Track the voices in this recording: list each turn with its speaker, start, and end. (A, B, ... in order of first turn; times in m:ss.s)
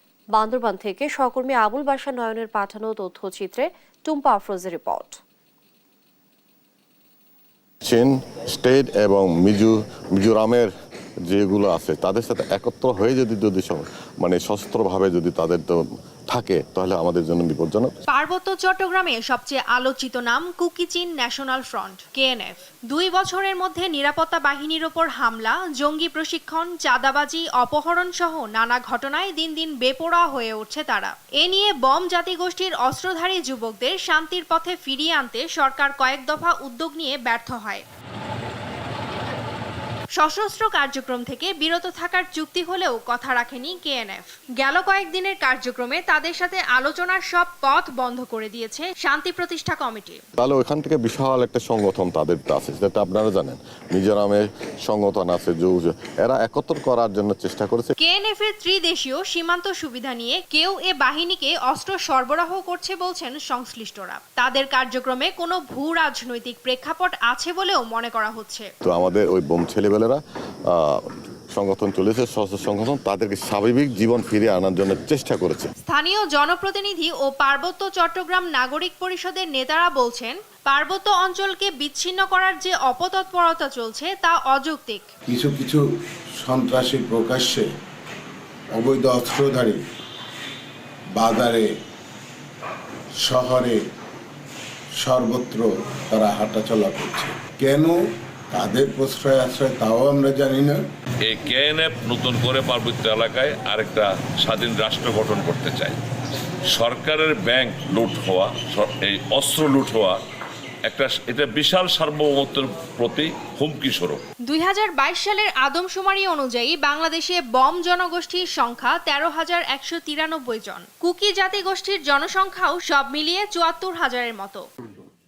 0:00.3-0:05.2 A
0:07.8-0:10.7 B
0:11.3-0:17.9 B
0:18.1-0:37.8 C
0:40.2-0:50.2 C
0:50.4-0:57.9 B
0:58.0-1:08.7 C
1:08.8-1:15.7 B
1:15.8-1:25.1 C
1:25.3-1:25.8 D
1:26.4-1:27.7 D
1:28.7-1:29.8 D
1:31.2-1:31.7 D
1:33.2-1:33.8 D
1:35.0-1:38.0 D
1:38.5-1:40.8 D
1:41.2-1:46.0 E
1:46.7-1:50.2 E
1:50.9-1:54.2 E
1:54.4-2:04.6 C